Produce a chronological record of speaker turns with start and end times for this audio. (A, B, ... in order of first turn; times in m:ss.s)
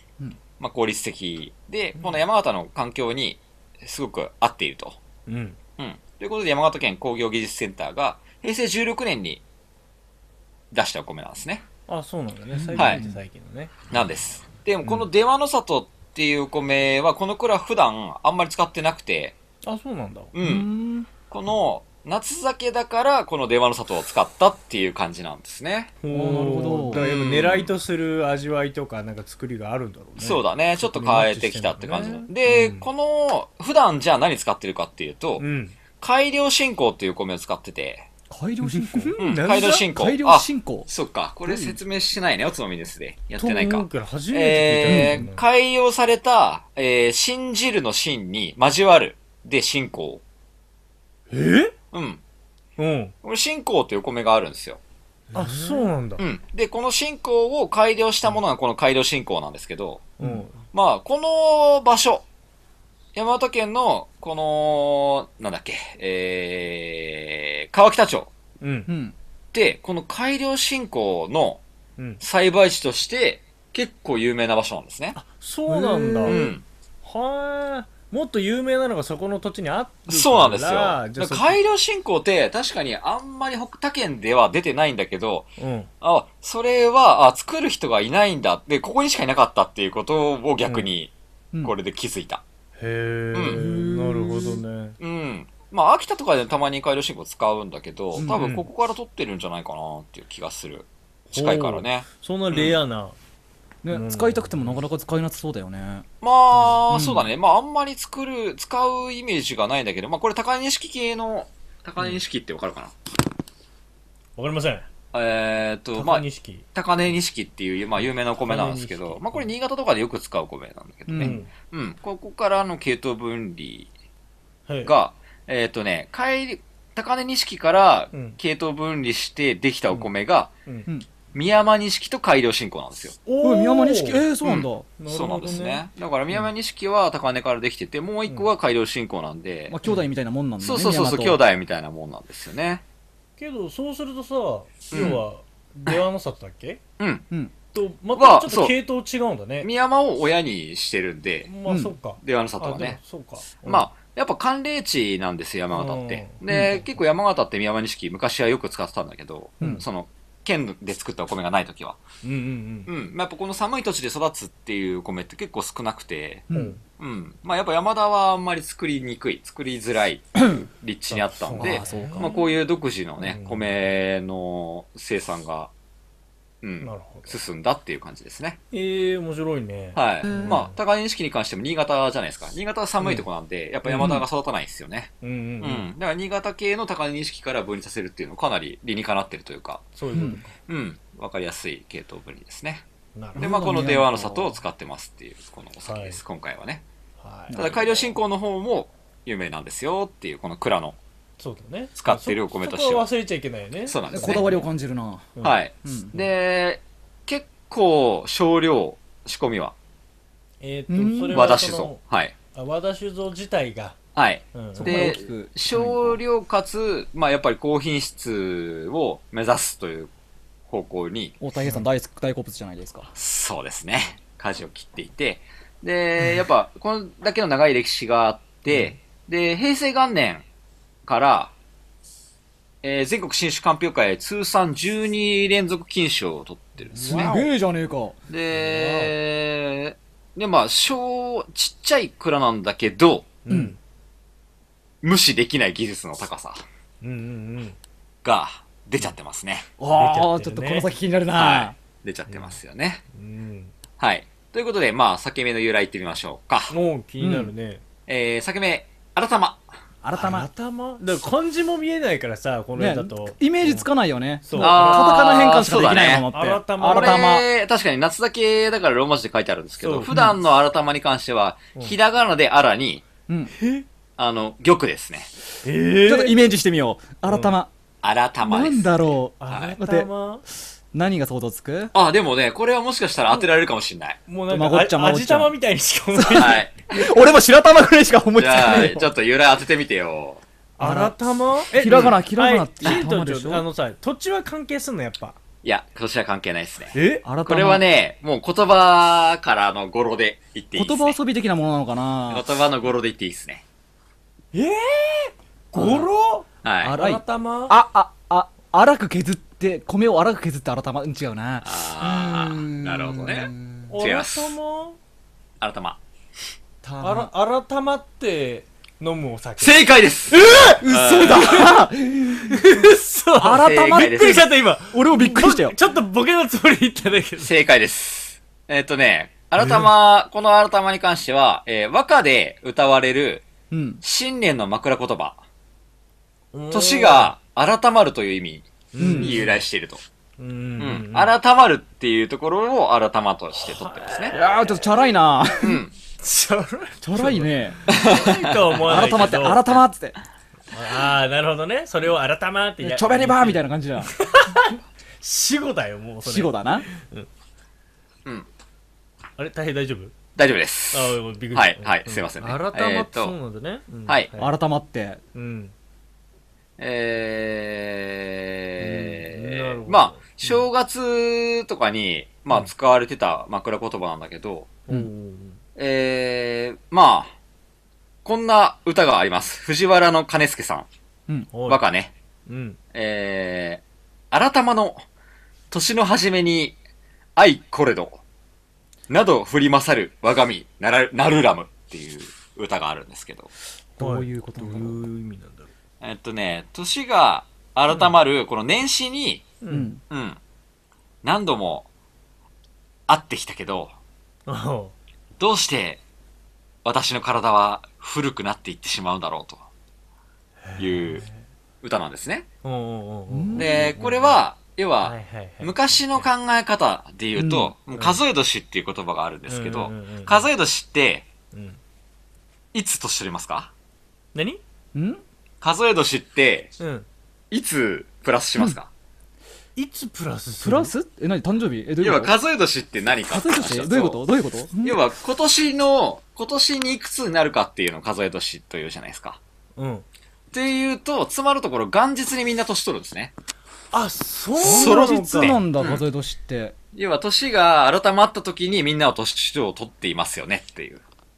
0:00.6-0:05.0 A
0:02.0-0:02.2 B
0:05.3-0:05.6 B
0:05.8-0:09.4 A
0:10.7-0:11.6 A
0:11.9-0:13.7 B
0:12.6-0:13.2 C
0:13.9-0:19.4 A
0:19.6-0:20.3 B
0:20.3-0:20.7 A
0:20.4-0:21.1 C
0:21.3-0:25.9 A
0:26.0-0:32.9 B
0:26.1-0:27.0 C
0:26.9-0:27.7 A
0:30.2-0:35.4 A
0:35.4-0:35.8 B
0:36.0-0:38.1 A
0:38.3-0:40.9 C
0:38.6-0:39.9 B
0:39.2-0:50.2 A
0:41.5-0:41.8 B
0:43.4-0:45.4 B
0:44.8-0:45.3 C
0:51.3-0:51.7 B
0:51.9-0:52.2 A
0:52.8-0:53.2 B
0:53.2-0:54.8 A
0:55.3-0:55.9 C
0:55.3-0:56.2 B
0:56.2-1:00.1 A
1:00.2-1:00.6 B
1:00.6-1:02.2 A
1:03.2-1:08.3 A
1:08.6-1:08.9 B
1:08.9-1:09.2 C
1:09.5-1:11.6 A
1:12.2-1:15.2 A
1:15.2-1:16.5 B
1:15.7-1:16.5 C
1:16.3-1:16.6 A
1:17.0-1:21.6 B
1:20.1-1:32.4 A
1:25.6-1:25.9 B
1:32.8-1:35.0 B
1:33.4-1:34.6 C
1:35.0-1:42.8 A
1:38.2-1:38.4 C
1:38.3-1:38.7 B
1:41.3-1:43.2 B
1:43.8-1:46.1 C
1:43.9-1:44.8 B
1:46.2-1:52.9 A
1:46.9-1:47.3 C
1:54.4-1:54.9 B
1:55.1-2:03.9 A
1:56.0-1:56.7 B
1:58.0-1:59.5 B
2:01.1-2:01.4 C
2:01.2-2:01.5 B
2:04.7-2:04.9 B
2:04.8-2:10.5 A
2:08.1-2:08.4 B
2:11.3-2:13.2 A
2:13.3-2:14.2 B
2:13.4-2:14.9 C
2:14.4-2:19.8 A
2:15.0-2:16.5 B
2:19.7-2:21.4 C
2:20.6-2:22.8 A
2:23.4-2:26.8 B
2:24.9-2:25.2 A
2:27.0-2:27.3 A
2:27.7-2:29.7 B
2:28.2-2:28.8 A
2:29.6-2:31.5 A
2:31.4-2:33.9 B
2:31.7-2:31.9 C
2:32.2-2:33.0 A
2:33.6-2:42.0 A
2:35.7-2:36.4 B
2:36.5-2:36.8 C
2:42.2-2:42.9 B
2:42.9-2:46.5 A
2:46.5-2:46.8 C
2:46.5-2:46.8 B
2:47.0-2:55.7 A
2:51.1-2:52.4 B
2:51.6-2:52.4 C
2:53.2-2:53.7 B
2:56.6-2:58.6 A
2:56.8-2:57.4 B
2:58.7-3:00.8 B
3:00.0-3:09.9 A
3:00.2-3:00.7 C
3:03.9-3:04.2 C
3:05.2-3:05.9 B
3:10.0-3:10.6 B
3:10.1-3:10.4 C
3:10.7-3:12.8 A
3:13.2-3:13.5 B
3:13.4-3:14.6 C
3:13.4-3:16.8 A
3:15.8-3:16.2 B
3:17.2-3:17.6 B
3:17.5-3:17.9 C
3:17.5-3:21.0 A
3:21.4-3:24.6 B
3:22.0-3:23.1 A
3:23.9-3:24.6 A
3:24.1-3:25.3 C
3:25.4-3:29.7 A
3:25.8-3:26.2 C
3:30.6-3:32.0 B
3:30.9-3:31.6 C
3:31.3-3:32.3 A
3:32.5-3:34.0 B
3:34.2-3:40.1 A
3:34.5-3:35.1 B
3:34.8-3:36.2 C
3:40.7-3:41.4 A
3:41.4-3:43.1 C
3:43.2-3:50.4 A
3:51.1-3:51.5 A
3:52.8-3:57.3 A
3:56.9-3:57.5 B
3:57.0-3:58.2 C
3:58.3-4:03.4 A
3:58.5-3:59.1 B
4:03.4-4:03.8 B
4:03.5-4:03.8 C
4:05.0-4:06.6 A
4:07.0-4:07.8 B
4:08.2-4:09.7 A
4:09.8-4:11.8 C
4:10.0-4:10.9 B
4:11.3-4:13.0 A
4:12.3-4:12.6 B
4:13.1-4:13.7 B
4:14.0-4:16.7 A
4:16.7-4:17.8 B
4:17.2-4:17.5 C
4:18.1-4:19.7 A
4:20.0-4:20.5 C
4:20.1-4:23.9 B
4:22.8-4:27.5 C
4:24.4-4:25.3 B
4:24.6-4:26.3 A
4:26.3-4:27.3 B
4:26.9-4:33.0 A
4:29.8-4:30.1 B
4:30.1-4:30.4 C
4:33.5-4:33.8 B
4:34.2-4:35.3 A
4:35.6-4:36.5 B
4:36.0-4:37.7 C
4:37.3-4:37.6 B
4:38.0-4:39.8 A
4:38.4-4:40.1 C
4:39.4-4:40.4 B
4:40.9-4:41.9 C
4:41.9-4:44.2 A
4:44.3-4:46.7 B
4:44.5-4:45.5 C
4:46.1-4:49.1 C
4:46.4-4:46.8 A
4:48.4-4:50.4 A
4:50.8-4:55.4 B
4:50.8-4:51.1 C
4:51.7-4:53.6 C
4:51.8-4:52.2 A
4:55.6-5:01.2 A
4:56.9-4:57.3 B
4:57.2-4:57.8 C
5:00.8-5:02.4 C
5:02.3-5:03.6 A
5:04.5-5:07.8 B
5:06.6-5:07.0 A
5:06.8-5:14.0 C
5:11.6-5:14.6 A
5:13.9-5:15.0 B
5:15.6-5:16.0 A
5:16.8-5:17.3 C
5:17.0-5:19.8 B
5:19.6-5:21.7 A
5:20.3-5:22.6 C
5:21.4-5:21.7 B
5:22.4-5:27.5 B
5:23.4-5:25.8 C
5:23.6-5:24.5 A
5:27.4-5:33.4 A
5:29.6-5:29.9 B
5:33.7-5:34.0 C
5:34.0-5:35.4 A
5:36.5-5:37.4 B
5:36.7-5:40.0 A
5:38.9-5:39.6 B
5:39.0-5:39.4 C
5:40.4-5:41.3 B
5:40.8-5:44.4 A
5:43.6-5:44.5 B
5:44.3-5:45.8 C
5:45.6-5:45.9 A
5:46.2-5:49.7 B
5:47.0-5:47.8 C
5:47.9-5:48.3 A
5:48.8-5:50.2 C
5:50.7-5:57.3 B
5:52.8-5:54.2 C
5:56.2-5:56.9 C
5:59.4-6:00.2 B
6:00.4-6:03.4 A
6:00.9-6:04.5 B
6:04.4-6:05.2 C
6:05.4-6:05.7 B
6:06.8-6:14.7 A
6:08.8-6:10.7 B
6:14.9-6:15.6 B
6:15.8-6:17.3 A
6:18.2-6:20.9 A
6:21.5-6:21.8 B
6:21.7-6:22.1 A
6:22.5-6:22.8 B
6:22.9-6:25.0 A
6:25.7-6:26.8 A
6:27.4-6:28.2 A
6:29.1-6:33.5 A
6:34.0-6:35.0 C
6:34.0-6:35.7 B
6:36.0-6:39.5 A
6:39.6-6:39.9 B
6:39.7-6:40.0 C
6:40.1-6:40.4 A
6:41.2-6:41.9 A
6:43.1-6:43.9 A
6:44.5-6:44.9 B
6:45.4-6:46.0 A
6:46.8-6:49.6 A
6:50.6-6:51.4 B
6:50.8-6:51.2 A
6:51.8-6:52.5 A
6:52.6-6:54.4 B
6:53.3-6:53.9 C
6:53.6-7:01.3 A
6:55.0-6:56.3 B
6:57.4-6:57.7 C
6:57.9-6:58.2 B
6:59.5-7:00.5 B
7:01.5-7:01.8 B
7:02.7-7:03.7 A
7:04.4-7:04.6 B
7:04.9-7:05.2 C
7:05.6-7:06.7 A
7:06.8-7:07.1 B
7:07.5-7:08.9 A
7:09.8-7:10.9 B
7:10.6-7:12.3 C
7:12.0-7:14.2 A
7:13.3-7:15.0 C
7:14.8-7:19.4 A
7:19.8-7:20.1 B
7:20.5-7:23.3 A
7:23.9-7:25.6 B
7:24.6-7:26.0 A
7:24.6-7:26.8 C
7:26.9-7:31.0 A